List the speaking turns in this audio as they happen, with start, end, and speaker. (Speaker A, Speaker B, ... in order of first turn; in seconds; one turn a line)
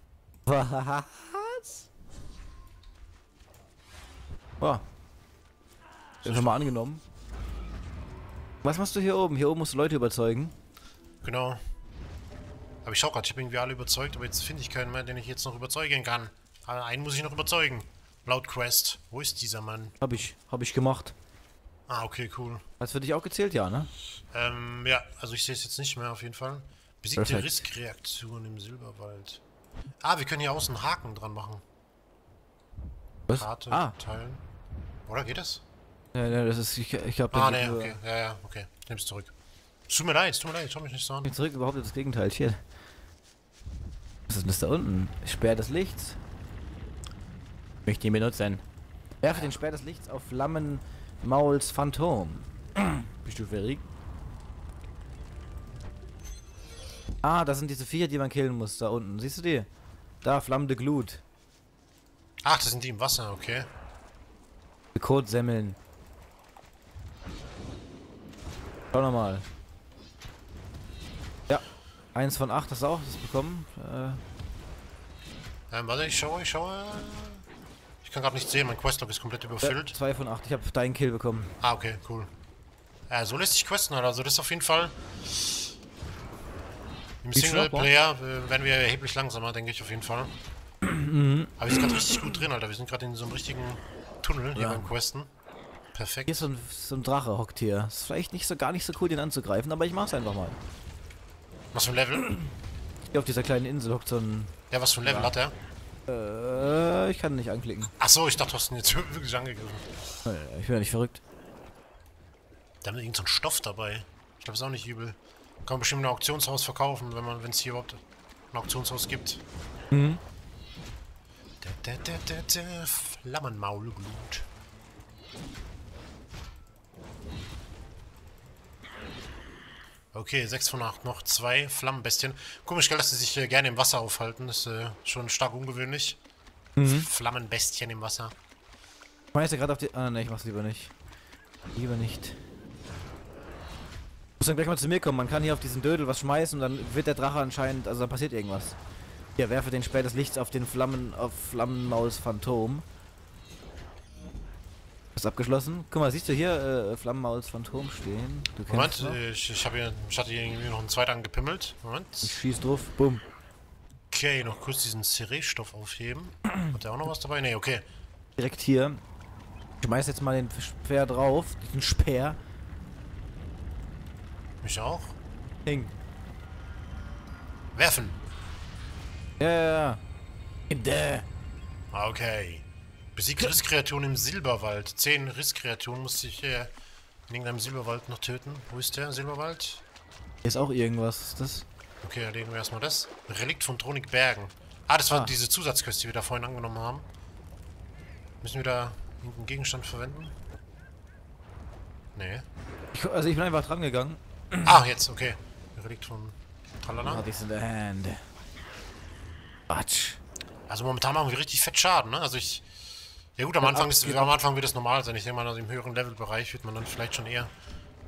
Speaker A: 0.4-1.9
Speaker A: 6.2-7.0
Speaker B: 6.2-6.7
Speaker A: 8.6-10.5
Speaker B: 11.2-11.6
Speaker B: 12.8-19.9
Speaker A: 20.0-21.1
Speaker B: 21.9-22.6
Speaker A: 22.8-23.9
Speaker B: 24.3-29.4
Speaker A: 27.1-27.6
Speaker B: 30.0-31.6
Speaker A: 33.3-33.9
Speaker B: 33.3-34.4
Speaker B: 35.0-35.6
Speaker A: 36.1-38.0
Speaker B: 37.3-39.3
Speaker B: 39.9-41.3
Speaker A: 41.2-42.6
Speaker A: 44.3-46.2
Speaker A: 47.9-48.6
Speaker A: 49.2-53.8
Speaker A: 57.2-59.7
Speaker A: 60.2-61.2
Speaker B: 62.4-63.7
Speaker A: 64.9-65.8
Speaker A: 68.9-69.4
Speaker A: 72.1-74.2
Speaker B: 75.7-77.4
Speaker B: 78.0-80.0
Speaker A: 79.6-81.5
Speaker B: 81.6-82.3
Speaker B: 83.1-85.7
Speaker B: 87.2-90.3
Speaker A: 87.3-87.9
Speaker A: 90.8-92.3
Speaker B: 91.6-95.3
Speaker A: 94.5-94.9
Speaker B: 95.9-96.5
Speaker A: 96.3-100.6
Speaker B: 101.7-102.3
Speaker A: 103.1-105.3
Speaker B: 104.7-105.5
Speaker A: 106.1-107.9
Speaker B: 108.0-110.0
Speaker A: 110.2-111.2
Speaker B: 112.8-118.0
Speaker B: 118.5-119.4
Speaker A: 119.9-120.2
Speaker B: 121.6-124.5
Speaker B: 130.1-136.2
Speaker A: 136.8-137.1
Speaker B: 136.8-138.3
Speaker A: 139.3-140.9
Speaker A: 141.7-142.4
Speaker A: 144.4-148.8
Speaker A: 149.4-152.8
Speaker A: 155.2-159.2
Speaker B: 158.7-162.4
Speaker A: 162.2-163.2
Speaker B: 164.1-167.8
Speaker A: 168.4-169.0
Speaker A: 169.8-172.4
Speaker B: 174.6-175.2
Speaker A: 175.7-175.9
Speaker B: 177.7-178.2
Speaker A: 179.4-180.0
Speaker A: 180.7-181.2
Speaker B: 181.9-186.7
Speaker B: 187.3-189.8
Speaker A: 190.4-191.7
Speaker B: 192.0-197.1
Speaker A: 195.1-195.3
Speaker B: 198.4-200.4
Speaker B: 202.2-202.5
Speaker A: 202.9-204.8
Speaker B: 204.6-207.2
Speaker A: 207.0-208.2
Speaker A: 209.7-210.2
Speaker B: 210.7-212.7
Speaker B: 213.4-217.5
Speaker A: 213.6-214.3